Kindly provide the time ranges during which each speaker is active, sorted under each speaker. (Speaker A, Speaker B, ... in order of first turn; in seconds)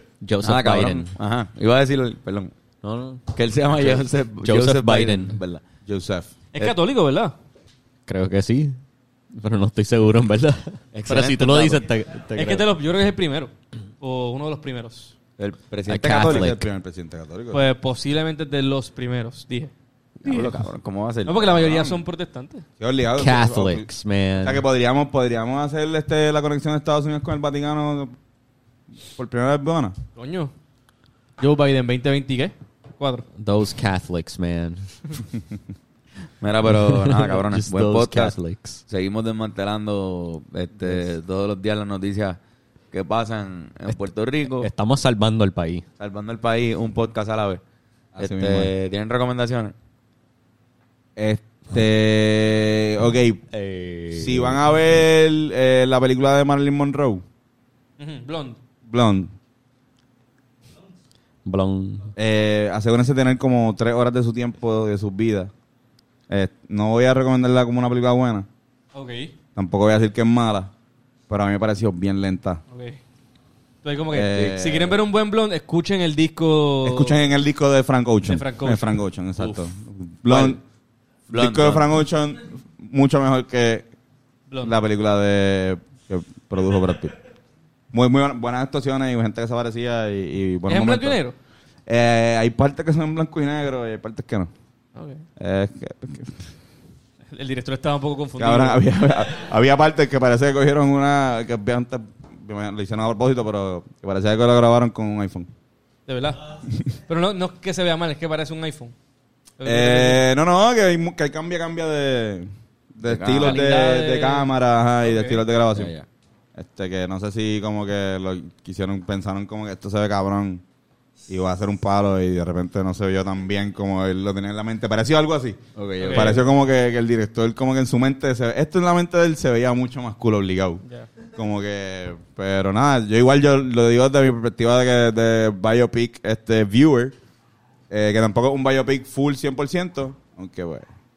Speaker A: 0.2-1.1, 2.8-5.4, 8.1-8.8, 9.3-12.7, 15.9-16.7, 23.2-24.6, 33.4-34.9, 36.7-38.8, 44.6-45.9, 53.5-54.6, 61.5-62.1
Speaker B: 0.4-2.5, 3.3-5.6, 10.9-11.9, 15.4-16.5, 20.2-21.4, 36.4-38.4, 38.9-42.4, 42.9-44.7, 46.0-47.6, 48.2-49.8, 80.2-80.6, 81.3-82.0, 113.0-113.7, 115.8-116.1, 125.8-126.4
Speaker C: 5.8-6.3, 16.1-17.6, 21.5-22.0, 22.8-23.9, 24.4-28.1, 29.1-29.9, 48.1-48.7, 51.2-53.4, 54.1-57.2, 58.9-59.3, 62.2-65.5, 66.3-68.5, 69.5-70.7, 71.3-72.6, 74.1-75.0, 76.8-80.6, 81.3-83.9, 84.6-87.1, 87.9-91.2, 91.9-94.5, 95.4-96.5, 98.4-105.5, 109.6-115.9, 116.6-120.6, 121.3-137.2, 137.9-140.9
Speaker D: 6.5-7.3, 12.3-15.2, 17.5-19.7, 20.2-20.6, 21.2-22.7, 30.2-30.5, 31.4-33.2, 58.0-58.6, 68.9-69.3, 72.7-73.0, 73.8-77.2, 78.3-79.0, 84.5-84.8, 90.7-91.4, 95.0-95.2, 97.3-98.9, 106.1-106.5, 107.1-109.0, 109.6-110.2, 113.4-114.5, 115.0-115.4, 126.0-126.4